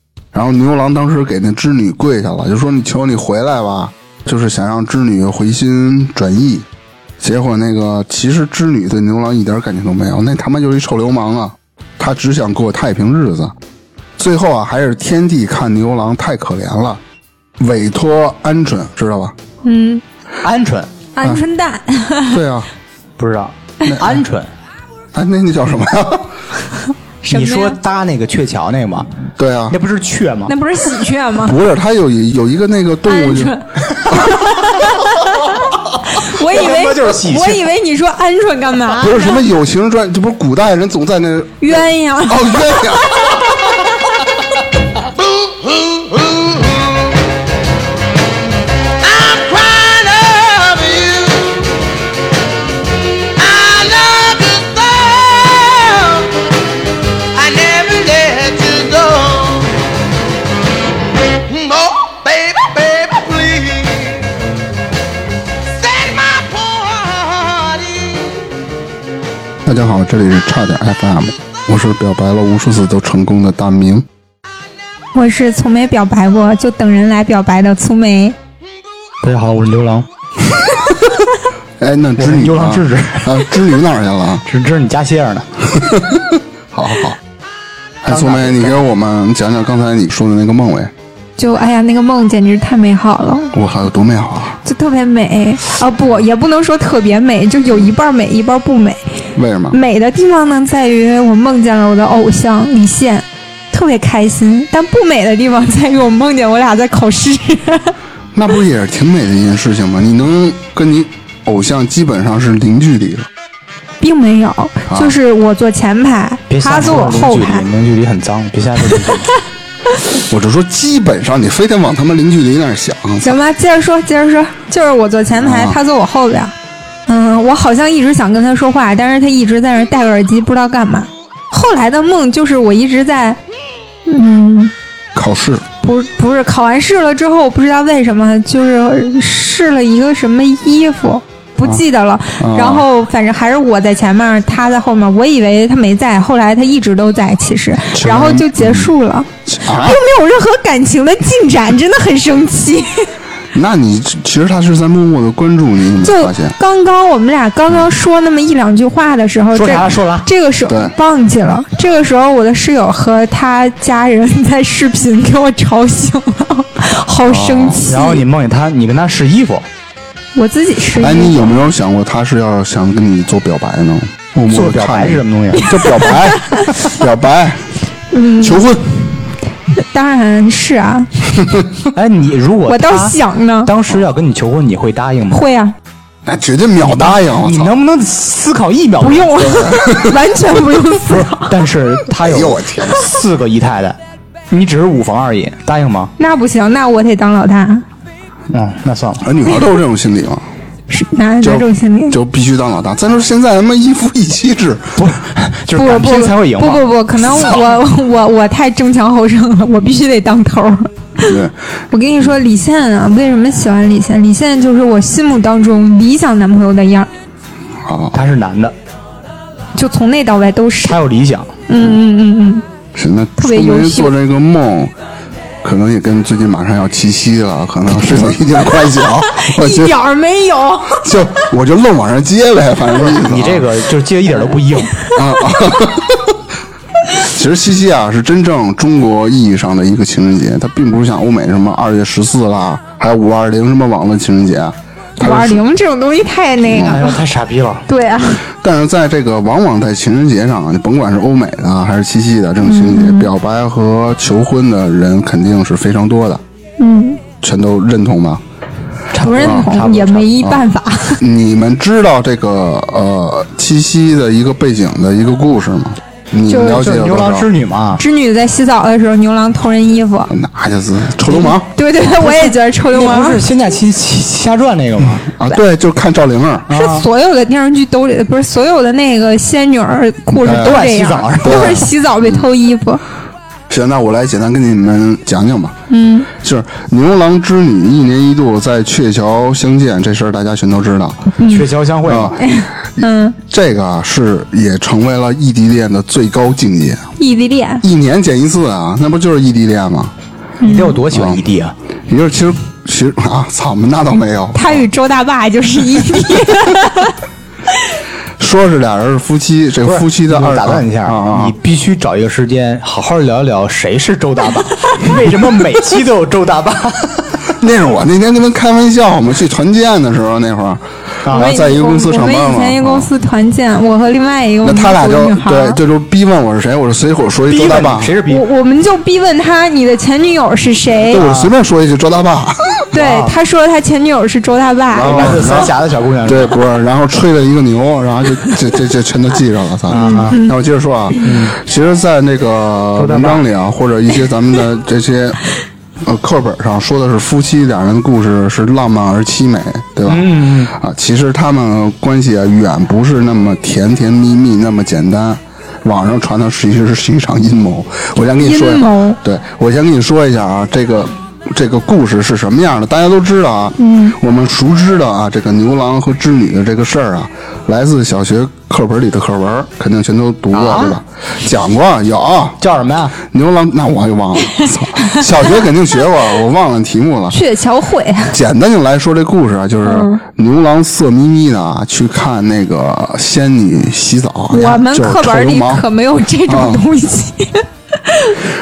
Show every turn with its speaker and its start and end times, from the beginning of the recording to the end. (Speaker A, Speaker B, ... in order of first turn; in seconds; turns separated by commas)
Speaker A: 0.3-6.7, Speaker A: 7.2-13.5, Speaker A: 14.2-17.0, Speaker A: 17.6-19.4, Speaker B: 19.6-20.0, Speaker C: 20.4-20.9, Speaker B: 21.1-22.4, Speaker A: 22.3-22.7, Speaker C: 23.2-24.5, Speaker A: 23.9-24.2, Speaker A: 25.1-26.3, Speaker B: 27.2-27.8, Speaker C: 27.3-29.1, Speaker A: 29.4-29.8, Speaker C: 29.7-30.5, Speaker B: 30.5-31.6, Speaker A: 31.4-33.6, Speaker B: 33.1-33.6, Speaker C: 33.9-35.4, Speaker A: 34.1-34.5, Speaker B: 34.1-39.5, Speaker C: 36.1-37.7, Speaker A: 38.9-43.5, Speaker B: 41.6-43.8, Speaker D: 45.0-47.3, Speaker D: 49.0-51.8, Speaker D: 53.4-56.5, Speaker D: 57.4-59.8, Speaker D: 61.3-64.3, Speaker D: 65.7-68.5, Speaker A: 69.7-74.1, Speaker B: 75.1-78.4, Speaker C: 79.2-80.1, Speaker A: 81.8-84.5, Speaker C: 82.2-83.4, Speaker C: 84.5-85.5, Speaker A: 85.7-87.2, Speaker C: 88.0-88.8, Speaker A: 88.0-90.9, Speaker B: 91.4-93.5, Speaker A: 93.5-94.6, Speaker B: 94.6-99.0, Speaker A: 99.3-99.8, Speaker B: 99.7-108.0, Speaker A: 108.3-113.3, Speaker B: 114.0-117.7, Speaker A: 114.9-115.2, Speaker C: 116.5-119.3, Speaker A: 120.1-123.4, Speaker B: 123.2-126.5, Speaker A: 125.4-125.8, Speaker B: 127.1-133.4, Speaker B: 134.1-134.7, Speaker A: 135.2-135.6, Speaker B: 135.8-153.1, Speaker A: 142.4-142.9, Speaker A: 147.9-148.9, Speaker A: 149.5-150.0, Speaker A: 153.5-156.6, Speaker B: 156.0-168.2, Speaker C: 159.5-160.3, Speaker A: 160.7-160.9, Speaker A: 167.3-167.8, Speaker C: 167.9-169.7, Speaker B: 170.3-171.6, Speaker A: 171.0-177.6, Speaker C: 174.5-176.1, Speaker B: 176.2-176.8, Speaker B: 178.1-178.7, Speaker A: 178.4-179.0, Speaker B: 179.8-181.1, Speaker A: 181.4-181.7, Speaker C: 181.9-185.4, Speaker B: 182.7-183.7, Speaker B: 185.3-185.8, Speaker A: 186.2-187.7, Speaker C: 186.8-189.5, Speaker B: 189.0-191.6, Speaker A: 189.4-190.2, Speaker C: 191.1-194.0, Speaker A: 192.2-193.2, Speaker C: 194.5-196.1, Speaker B: 196.2-197.8, Speaker C: 198.5-199.3, Speaker A: 199.2-200.4, Speaker B: 200.9-202.2, Speaker A: 201.4-205.0, Speaker C: 205.0-207.8, Speaker B: 205.7-211.4, Speaker A: 211.2-211.5, Speaker B: 211.9-217.1, Speaker A: 217.8-218.2, Speaker C: 218.1-218.8, Speaker B: 219.8-221.0, Speaker C: 220.8-221.5, Speaker B: 221.7-222.6, Speaker A: 222.9-224.9, Speaker B: 223.4-224.1, Speaker A: 225.6-230.0, Speaker B: 229.2-231.3, Speaker A: 230.9-233.7, Speaker C: 232.9-235.0, Speaker A: 235.1-236.4, Speaker A: 237.2-245.6, Speaker B: 245.2-247.2, Speaker A: 246.6-247.0, Speaker C: 246.9-247.9, Speaker B: 247.9-248.4, Speaker A: 248.6-256.4, Speaker B: 252.6-253.3, Speaker B: 256.8-257.2, Speaker A: 257.4-258.4, Speaker C: 259.1-260.5, Speaker B: 259.2-261.2, Speaker A: 259.4-259.7, Speaker A: 261.2-267.5, Speaker B: 266.5-266.9, Speaker C: 266.6-268.0, Speaker B: 268.0-270.3, Speaker A: 270.3-271.7, Speaker B: 271.7-273.4, Speaker C: 272.2-275.3, Speaker A: 275.4-276.7, Speaker C: 276.7-277.1, Speaker B: 276.7-283.0, Speaker A: 280.4-280.8, Speaker C: 280.4-281.9, Speaker A: 281.4-282.4, Speaker A: 283.7-285.8, Speaker B: 285.9-286.3, Speaker A: 286.3-291.3, Speaker B: 291.4-291.7, Speaker C: 291.5-292.4, Speaker A: 292.1-297.1, Speaker B: 292.4-293.4, Speaker B: 297.2-297.8, Speaker A: 297.8-300.1, Speaker B: 300.6-301.0, Speaker C: 300.6-301.7, Speaker A: 301.1-301.4, Speaker A: 302.1-304.9, Speaker B: 304.5-307.2, Speaker A: 308.4-311.6, Speaker C: 309.8-317.4, Speaker A: 317.6-323.1, Speaker C: 321.2-321.6, Speaker B: 321.3-325.8, Speaker A: 324.6-328.1, Speaker C: 327.5-328.4, Speaker B: 328.3-331.2, Speaker A: 331.0-332.9, Speaker C: 331.2-331.5, Speaker B: 332.9-335.4, Speaker C: 332.9-333.3, Speaker A: 334.9-345.4, Speaker C: 335.0-336.6, Speaker C: 339.9-340.4, Speaker B: 340.0-340.5, Speaker C: 341.2-341.6, Speaker C: 343.0-343.4, Speaker A: 346.0-372.6, Speaker C: 350.1-350.7, Speaker B: 358.4-359.2, Speaker B: 363.8-364.2, Speaker C: 370.5-371.0, Speaker C: 372.6-373.2, Speaker A: 373.2-377.4, Speaker B: 377.3-378.4, Speaker A: 378.3-385.9, Speaker B: 379.8-380.2, Speaker B: 384.5-388.4, Speaker A: 386.5-386.9